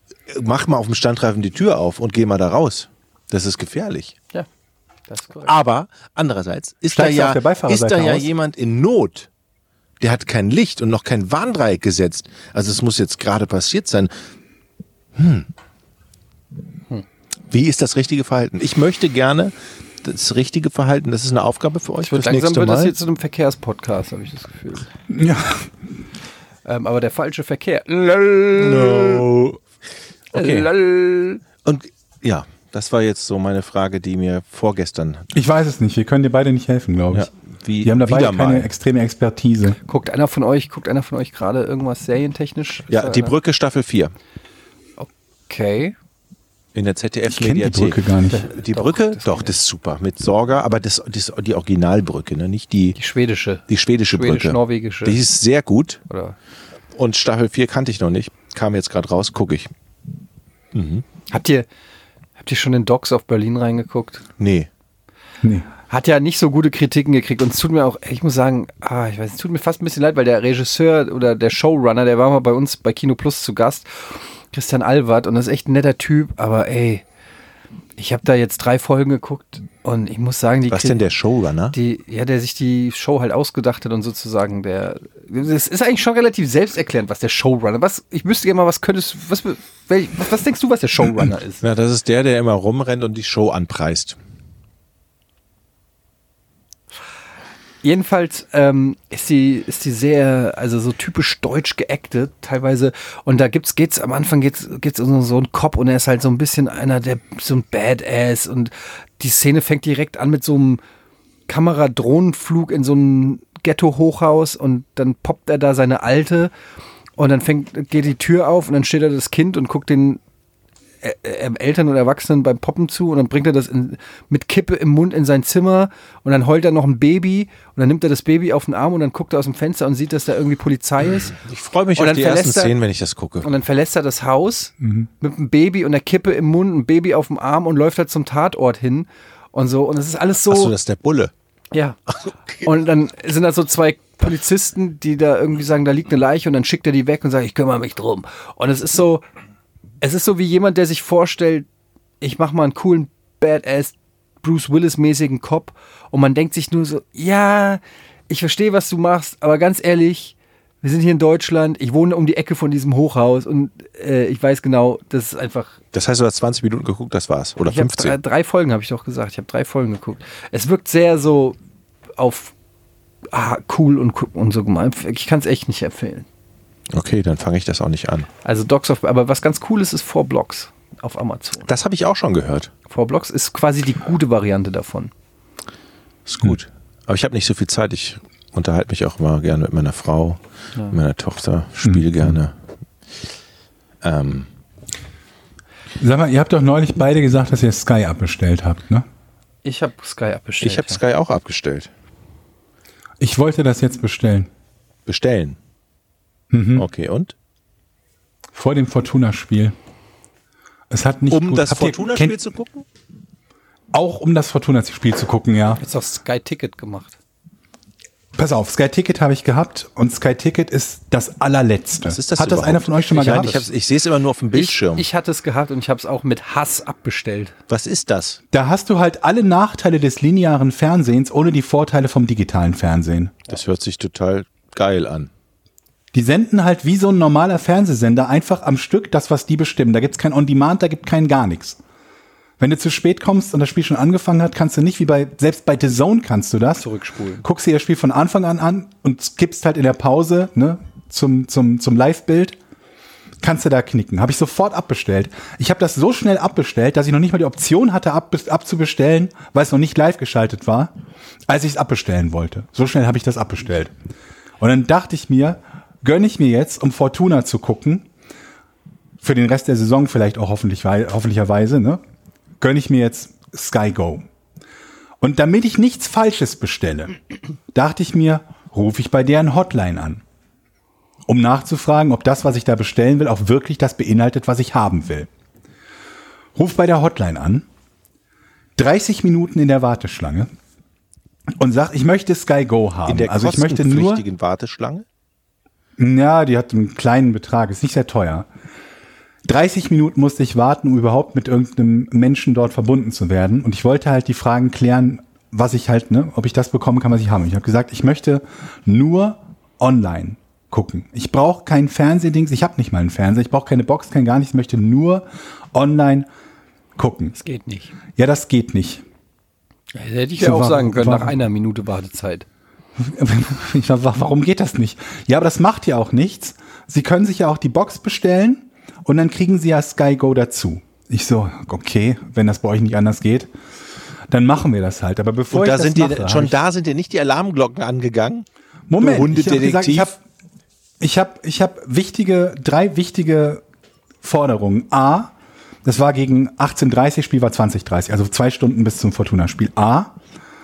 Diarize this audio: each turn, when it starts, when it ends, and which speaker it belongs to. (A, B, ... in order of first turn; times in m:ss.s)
0:00.3-0:04.2 A
0:05.1-0:05.6 B
0:05.4-0:09.3 A
0:06.9-0:08.3 C
0:10.0-0:14.1 A
0:15.2-0:15.5 A
0:17.5-0:23.0 A
0:22.0-0:24.9 B
0:25.1-0:25.7 C
0:26.6-0:29.2 B
0:28.6-0:29.6 A
0:30.3-0:30.7 A
0:30.3-0:31.4 B
0:31.6-0:35.3 A
0:35.3-0:37.3 C
0:37.1-0:38.7 A
0:37.8-0:39.8 C
0:39.8-0:43.3 B
0:42.9-0:44.1 A
0:45.0-0:46.0 B
0:46.7-0:53.0 A
0:47.3-0:48.5 C
0:48.3-0:49.5 B
0:53.0-0:55.2 B
0:53.7-0:56.0 A
0:56.1-0:56.4 B
0:57.0-0:59.7 A
1:00.7-1:01.0 A
1:01.3-1:01.7 B
1:02.4-1:04.2 B
1:04.4-1:04.7 A
1:05.4-1:05.7 C
1:05.9-1:17.0 B
1:18.0-1:21.0 B
1:20.7-1:21.8 A
1:21.7-1:31.6 B
1:31.6-1:34.2 A
1:37.8-1:50.8 B
1:51.5-1:56.5 B
1:57.2-2:00.2 B
2:01.0-2:11.4 B
2:11.1-2:13.5 A
2:12.0-2:12.8 B
2:13.4-2:20.7 B
2:14.8-2:15.1 C
2:20.5-2:21.3 A
2:21.7-2:22.0 B
2:22.6-2:29.2 B
2:30.0-2:31.7 B
2:32.2-2:45.8 B
2:45.9-2:48.2 A
2:47.7-2:51.6 B
2:52.2-2:52.5 B
2:53.3-2:56.3 B
2:56.9-2:58.3 A
2:58.4-3:01.7 B
3:01.7-3:02.7 A
3:02.9-3:05.1 B
3:06.3-3:10.4 A
3:10.9-3:12.5 A
3:14.0-3:14.5 A
3:16.0-3:19.0 C
3:19.6-3:21.0 B
3:20.6-3:21.9 A
3:23.2-3:24.5 C
3:25.1-3:25.6 A
3:26.5-3:26.9 C
3:26.8-3:27.3 A
3:28.5-3:29.7 C
3:30.9-3:32.3 C
3:31.3-3:32.8 A
3:33.9-3:35.8 C
3:35.8-3:37.2 B
3:38.4-3:43.7 C
3:42.0-3:45.0 A
3:43.1-3:43.6 B
3:44.5-3:47.5 B
3:47.7-3:48.4 A
3:48.5-3:53.4 C
3:53.5-3:55.3 A
3:56.1-4:01.8 C
4:02.6-4:06.9 C
4:06.8-4:07.4 B
4:07.4-4:12.6 C
4:13.4-4:20.9 C
4:21.5-4:23.9 C
4:24.6-4:28.1 C
4:29.2-4:32.0 C
4:32.6-4:34.3 C
4:35.2-4:37.2 C
4:37.7-4:40.2 C
4:41.3-4:45.3 C
4:46.6-4:47.7 C
4:48.8-4:50.5 C
4:51.6-4:54.2 C
4:53.0-4:55.0 A
4:56.0-4:58.5 C
4:59.4-5:16.3 C
5:17.0-5:17.3 C
5:17.3-5:17.9 B
5:18.2-5:19.0 C
5:19.9-5:22.4 B
5:20.4-5:21.4 C
5:23.0-5:33.5 C
5:34.3-5:36.6 C
5:35.5-5:38.4 A
5:38.9-5:40.2 C
5:39.0-5:40.1 A
5:41.0-5:43.6 C
5:44.2-5:45.3 C
5:45.8-5:50.2 C